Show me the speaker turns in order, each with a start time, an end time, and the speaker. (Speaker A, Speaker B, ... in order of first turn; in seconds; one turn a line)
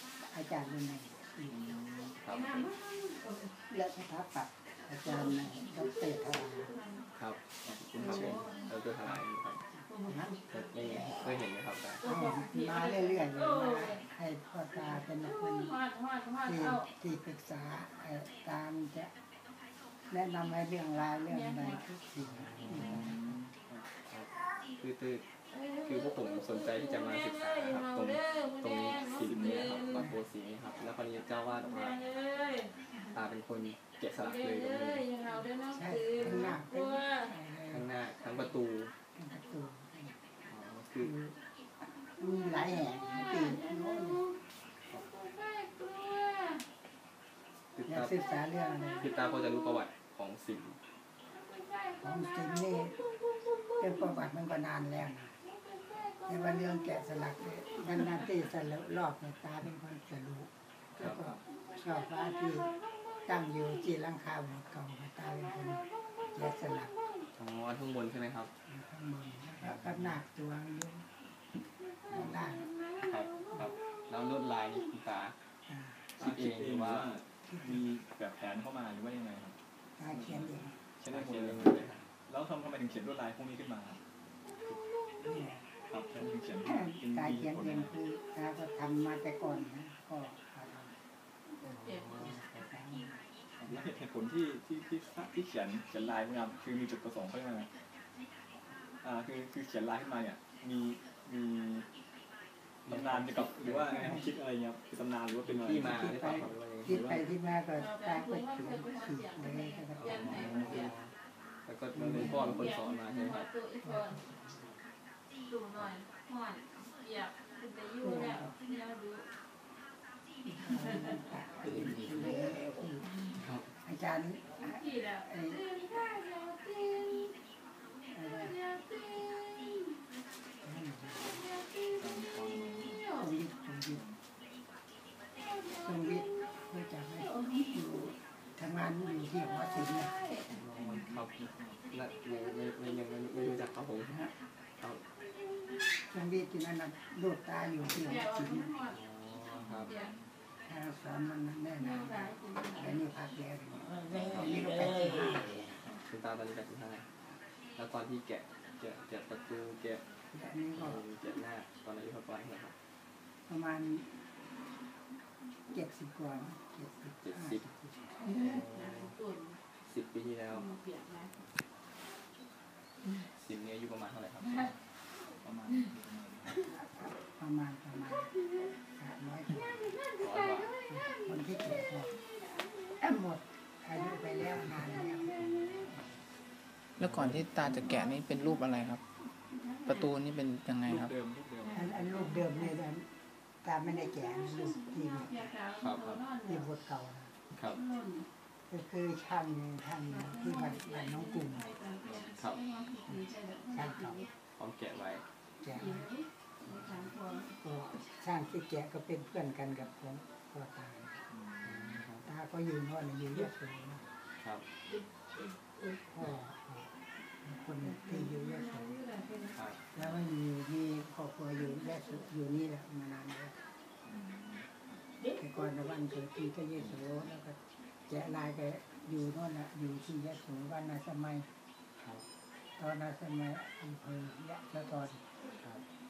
Speaker A: 0.2-1.6
Speaker B: 1.5-2.2
Speaker C: 2.2-2.7
Speaker D: 2.3-3.6
Speaker A: 3.7-6.7
Speaker D: 5.0-7.1
Speaker C: 7.2-9.7
Speaker B: 7.6-8.5
Speaker D: 8.0-8.7
Speaker D: 9.9-11.1
Speaker A: 10.0-10.4
Speaker C: 10.5-12.1
Speaker D: 12.0-14.1
Speaker A: 12.0-15.8
Speaker D: 15.2-16.9
Speaker A: 16.4-19.1
Speaker A: 20.1-23.2
Speaker D: 21.3-21.8
Speaker C: 22.2-23.4
Speaker B: 22.6-23.9
Speaker C: 24.1-25.2
Speaker D: 25.5-30.1
Speaker C: 25.8-32.0
Speaker B: 29.1-29.9
Speaker D: 31.6-33.2
Speaker C: 33.1-35.0
Speaker D: 34.1-37.4
Speaker A: 35.7-38.5
Speaker C: 36.2-36.6
Speaker C: 37.7-38.9
Speaker A: 39.1-40.2
Speaker C: 40.5-41.1
Speaker A: 41.0-44.2
Speaker D: 42.6-44.4
Speaker D: 44.9-46.7
Speaker C: 47.7-48.2
Speaker A: 47.9-49.1
Speaker D: 48.5-49.8
Speaker C: 49.0-50.8
Speaker D: 51.3-54.2
Speaker A: 52.0-53.0
Speaker A: 53.8-55.4
Speaker D: 55.4-58.3
Speaker A: 56.3-62.7
Speaker B: 61.0-61.4
Speaker C: 61.0-61.3
Speaker D: 61.5-63.7
Speaker A: 63.3-66.9
Speaker D: 65.4-67.3
Speaker C: 67.3-68.5
Speaker A: 68.7-71.1
Speaker C: 69.6-70.2
Speaker D: 71.7-74.8
Speaker C: 72.1-72.4
Speaker A: 72.1-72.7
Speaker C: 73.0-75.3
Speaker A: 75.7-76.2
Speaker C: 76.2-77.1
Speaker B: 76.2-79.6
Speaker A: 77.5-77.8
Speaker A: 80.0-80.8
Speaker B: 80.1-84.0
Speaker C: 81.1-82.1
Speaker D: 85.1-85.4
Speaker A: 85.2-85.7
Speaker B: 85.9-88.0
Speaker A: 86.6-90.9
Speaker D: 91.5-92.3
Speaker C: 91.7-92.7
Speaker A: 92.1-93.3
Speaker B: 93.6-97.7
Speaker B: 99.0-101.9
Speaker C: 102.9-104.2
Speaker B: 102.9-107.3
Speaker A: 103.9-104.2
Speaker C: 105.5-107.0
Speaker A: 105.8-110.8
Speaker D: 107.8-110.9
Speaker C: 109.9-111.1
Speaker B: 110.1-110.9
Speaker C: 111.7-113.5
Speaker A: 111.9-112.8
Speaker D: 112.2-114.2
Speaker A: 113.8-114.4
Speaker D: 115.5-119.3
Speaker A: 118.0-118.6
Speaker A: 120.6-123.1
Speaker D: 120.8-121.2
Speaker C: 121.6-122.6
Speaker C: 123.3-123.7
Speaker A: 123.8-125.7
Speaker D: 124.6-127.4
Speaker A: 128.1-128.6
Speaker D: 128.3-130.0
Speaker A: 130.6-131.4
Speaker D: 131.3-133.3
Speaker B: 132.0-133.0
Speaker A: 133.1-134.0
Speaker B: 133.9-134.2
Speaker D: 135.4-136.5
Speaker A: 135.8-140.2
Speaker D: 137.2-138.1
Speaker D: 139.7-140.7
Speaker C: 140.5-145.1
Speaker B: 140.7-141.9
Speaker D: 145.2-145.8
Speaker A: 146.0-148.7
Speaker D: 148.0-149.0
Speaker C: 148.9-149.9
Speaker B: 149.3-150.3
Speaker D: 149.8-150.1
Speaker A: 150.6-155.7
Speaker D: 151.8-153.0
Speaker C: 154.1-157.1
Speaker E: 154.9-155.6
Speaker C: 157.8-160.0
Speaker A: 160.3-161.1
Speaker C: 160.7-162.8
Speaker A: 163.5-164.1
Speaker A: 165.7-168.6
Speaker C: 167.2-167.7
Speaker D: 168.2-169.6
Speaker C: 168.4-169.1
Speaker C: 169.8-170.7
Speaker D: 170.5-171.4
Speaker C: 173.3-174.8
Speaker B: 175.4-176.6
Speaker A: 177.2-178.3
Speaker D: 178.2-178.7
Speaker A: 179.0-179.9
Speaker D: 179.9-183.0
Speaker C: 180.2-180.7
Speaker A: 180.9-182.1
Speaker A: 183.0-185.5
Speaker D: 184.0-186.0
Speaker E: 187.0-189.0
Speaker B: 187.0-187.9
Speaker D: 187.6-190.3
Speaker E: 189.9-191.1
Speaker B: 190.8-192.0
Speaker D: 191.6-192.7
Speaker A: 191.7-193.1
Speaker A: 193.6-195.5
Speaker D: 193.9-196.7
Speaker C: 195.8-196.2
Speaker A: 196.4-197.3
Speaker C: 197.5-197.8
Speaker D: 197.7-198.3
Speaker A: 198.7-201.7
Speaker D: 200.1-204.3
Speaker C: 202.3-202.6
Speaker A: 203.7-204.2
Speaker C: 204.6-205.2
Speaker A: 205.6-206.1
Speaker D: 205.6-207.6
Speaker A: 207.6-211.3
Speaker B: 211.3-212.0
Speaker C: 211.6-212.3
Speaker A: 212.2-214.1
Speaker C: 214.4-214.7
Speaker D: 214.8-216.0
Speaker A: 216.1-218.9
Speaker D: 217.8-219.6
Speaker C: 219.5-220.2
Speaker A: 219.9-223.6
Speaker B: 224.1-224.6
Speaker A: 225.4-231.5
Speaker A: 232.8-235.3